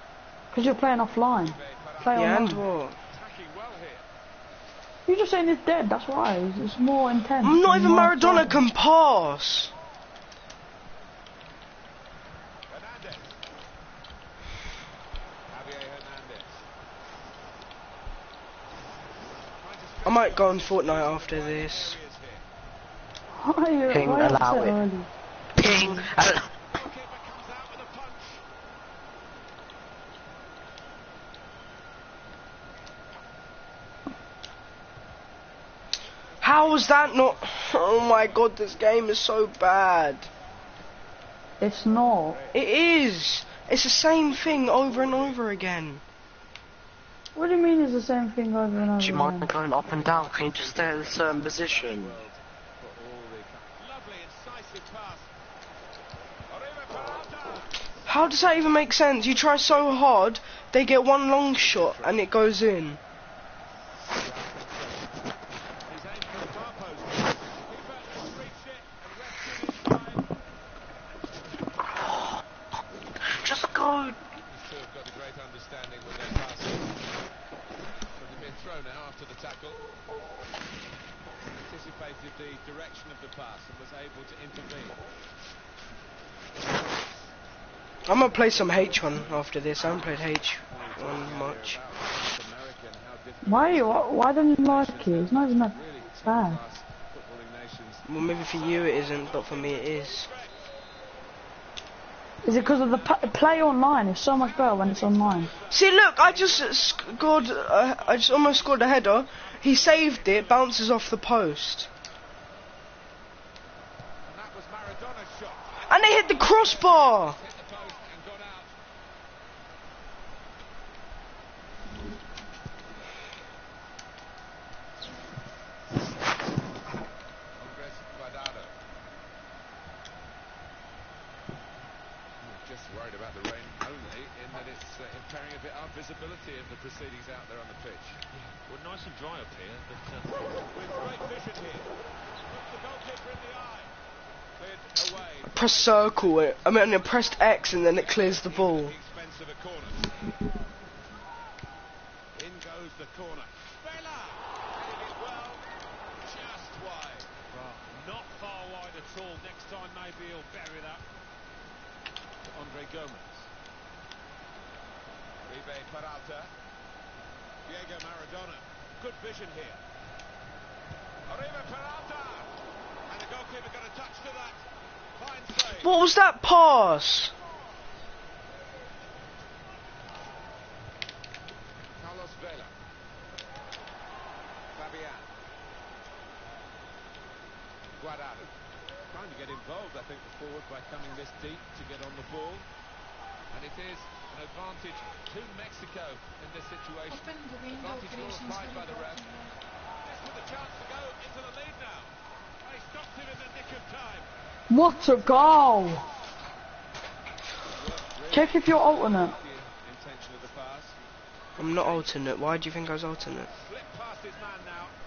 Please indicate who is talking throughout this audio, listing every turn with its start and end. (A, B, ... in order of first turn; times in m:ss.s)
0:00.5-0:02.6 A
0:01.4-0:02.5 B
0:02.1-0:03.0 C
0:03.1-0:04.1 B
0:05.1-0:08.6 A
0:07.4-0:09.7 C
0:12.7-0:13.4 B
0:15.5-0:16.6 B
0:19.6-0:22.4 B
0:20.0-0:22.0 C
0:23.4-0:25.1 A
0:23.9-0:24.8 D
0:25.6-0:26.5 D
0:25.8-0:28.4 B
0:36.3-0:38.5 B
0:36.4-0:40.3 C
0:41.6-0:42.4 A
0:41.8-0:42.6 B
0:42.5-0:46.0 C
0:44.0-0:45.8 B
0:47.4-0:49.5 A
0:49.0-0:52.2 D
0:49.8-0:55.3 B
0:56.5-0:57.8 B
0:58.0-1:03.0 C
0:59.6-1:00.0 B
1:01.5-1:02.4 B
1:04.0-1:05.2 B
1:05.8-1:10.2 B
1:11.8-1:12.4 D
1:13.2-1:14.2 D
1:14.4-1:17.0 B
1:18.2-1:19.8 B
1:21.5-1:25.0 B
1:28.0-1:31.8 C
1:28.1-1:40.7 B
1:33.4-1:36.6 A
1:38.0-1:40.3 C
1:42.4-1:43.7 B
1:42.4-1:45.5 A
1:44.3-1:46.0 B
1:45.7-1:51.9 C
1:46.1-1:50.8 E
1:54.2-1:58.7 B
1:55.9-1:57.4 C
2:07.6-2:08.7 B
2:12.4-2:18.2 B
2:18.3-2:20.5 E
2:20.4-2:21.9 B
2:22.5-2:23.9 B
2:24.6-2:30.2 B
2:25.5-2:28.9 C
2:32.3-2:35.6 B
2:36.2-2:37.3 B
2:37.5-2:41.0 E
2:42.4-2:43.5 B
2:45.4-2:46.5 B
2:47.6-2:49.8 B
2:51.2-2:52.5 B
2:53.1-2:54.6 B
2:55.2-2:56.0 B
2:55.8-2:57.3 C
3:01.9-3:02.7 B
3:04.7-3:05.3 B
3:08.0-3:08.5 B
3:09.1-3:12.7 B
3:13.5-3:19.4 B
3:20.0-3:24.3 B
3:24.7-3:26.1 A
3:27.7-3:31.0 B
3:28.3-3:29.4 A
3:31.6-3:33.5 C
3:31.6-3:32.0 B
3:33.5-3:34.9 B